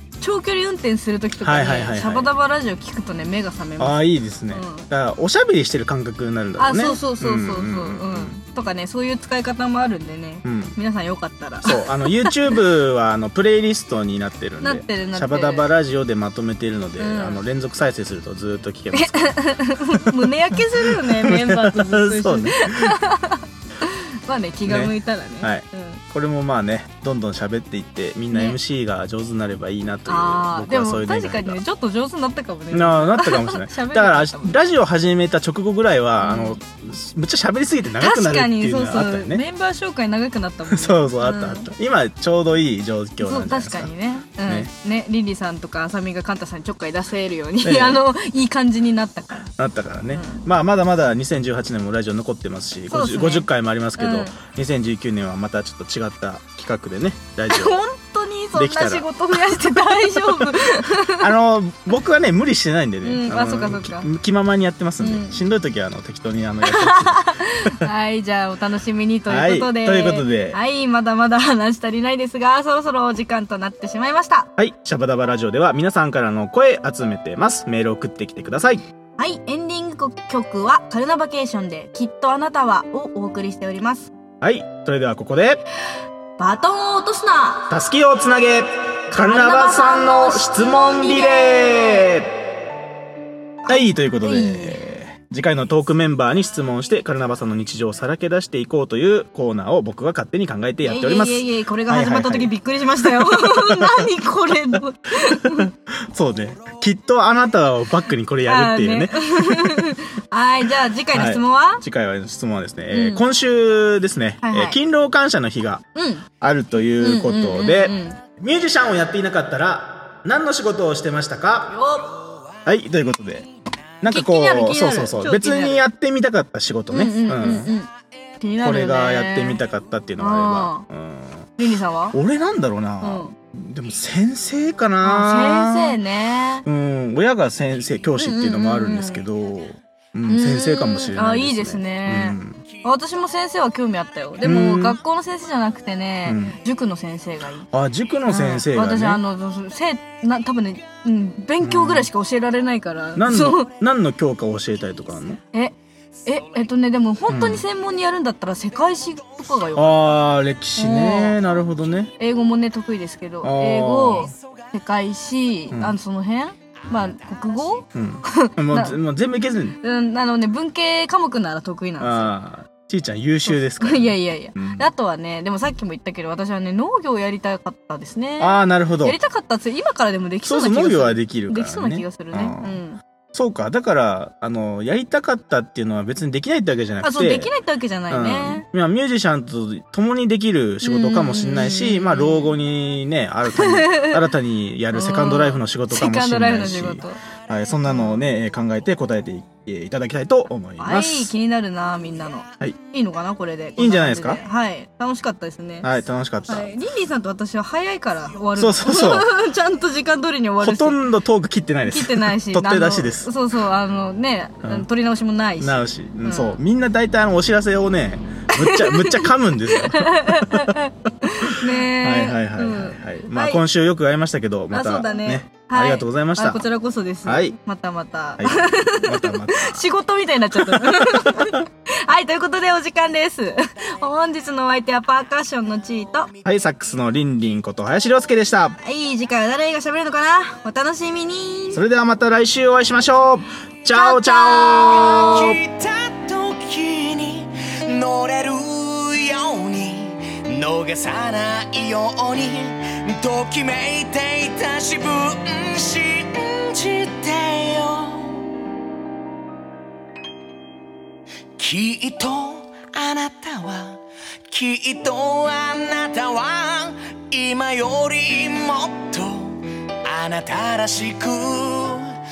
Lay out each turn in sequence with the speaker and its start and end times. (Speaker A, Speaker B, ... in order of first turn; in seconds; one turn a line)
Speaker A: 0.2-4.8
Speaker B: 1.4-2.3
Speaker B: 3.8-8.4
Speaker A: 6.6-12.6
Speaker B: 10.4-10.8
Speaker B: 11.6-23.0
Speaker A: 14.6-15.7
Speaker A: 17.0-17.4
Speaker A: 19.0-26.0
Speaker B: 24.6-31.6
Speaker A: 30.1-34.6
Speaker B: 32.7-39.4
Speaker A: 36.2-36.6
Speaker A: 38.0-41.7
Speaker B: 40.7-43.9
Speaker A: 43.2-49.5
Speaker B: 44.5-44.7
Speaker B: 47.6-48.0
Speaker B: 49.5-57.8
Speaker A: 50.1-50.5
Speaker A: 52.9-54.4
Speaker A: 57.5-61.3
Speaker B: 58.5-59.1
Speaker B: 60.1-67.9
Speaker A: 63.0-64.1
Speaker A: 65.0-65.4
Speaker A: 66.7-74.5
Speaker B: 69.3-70.6
Speaker B: 74.6-78.8
Speaker A: 79.2-84.1
Speaker B: 84.4-85.6
Speaker A: 86.4-87.7
Speaker B: 87.7-92.3
Speaker A: 89.2-92.2
Speaker A: 93.7-94.8
Speaker B: 93.7-102.5
Speaker A: 100.8-105.7
Speaker B: 103.1-104.0
Speaker B: 105.3-109.9
Speaker A: 108.5-111.8
Speaker B: 111.1-115.8
Speaker A: 112.9-113.2
Speaker A: 114.4-114.8
Speaker A: 115.9-116.3
Speaker B: 116.4-121.8
Speaker A: 117.0-118.2
Speaker A: 121.7-122.2
Speaker B: 122.6-123.5
Speaker B: 124.0-127.7
Speaker A: 124.1-125.9
Speaker A: 126.9-127.9
Speaker A: 128.4-129.6
Speaker B: 128.6-131.5
Speaker A: 130.2-130.9
Speaker A: 131.6-132.2
Speaker B: 132.1-136.0
Speaker A: 133.0-133.3
Speaker A: 135.0-136.7
Speaker B: 136.6-142.6
Speaker A: 138.2-139.2
Speaker A: 140.3-147.7
Speaker B: 144.4-145.0
Speaker B: 146.3-146.6
Speaker B: 147.7-149.2
Speaker A: 148.3-153.7
Speaker B: 151.6-152.1
Speaker B: 153.2-155.4
Speaker A: 156.3-160.2
Speaker B: 157.3-157.7
Speaker B: 159.7-162.1
Speaker A: 160.8-161.4
Speaker A: 162.2-169.0
Speaker B: 163.4-164.3
Speaker B: 165.7-165.9
Speaker B: 167.9-169.8
Speaker A: 169.8-172.3
Speaker B: 172.0-174.9
Speaker A: 173.4-183.0
Speaker B: 178.4-179.2
Speaker B: 180.4-182.8
Speaker B: 183.3-187.5
Speaker A: 187.0-188.6
Speaker B: 188.1-201.3
Speaker A: 190.8-192.5
Speaker A: 193.5-194.2
Speaker A: 194.9-197.2
Speaker A: 197.8-198.3
Speaker A: 200.8-205.9
Speaker B: 203.8-204.4
Speaker B: 205.8-206.7
Speaker A: 206.5-211.1
Speaker B: 208.6-209.3
Speaker B: 210.6-213.3
Speaker A: 211.8-216.6
Speaker B: 215.6-226.6
Speaker A: 218.6-223.6
Speaker A: 224.7-236.3
Speaker B: 227.2-227.6
Speaker B: 228.4-229.9
Speaker B: 230.6-231.6
Speaker B: 236.4-238.8
Speaker A: 238.8-241.8
Speaker B: 241.7-245.6
Speaker A: 243.9-245.5
Speaker C: 244.9-258.4
Speaker C: 261.6-264.0
Speaker C: 264.5-272.1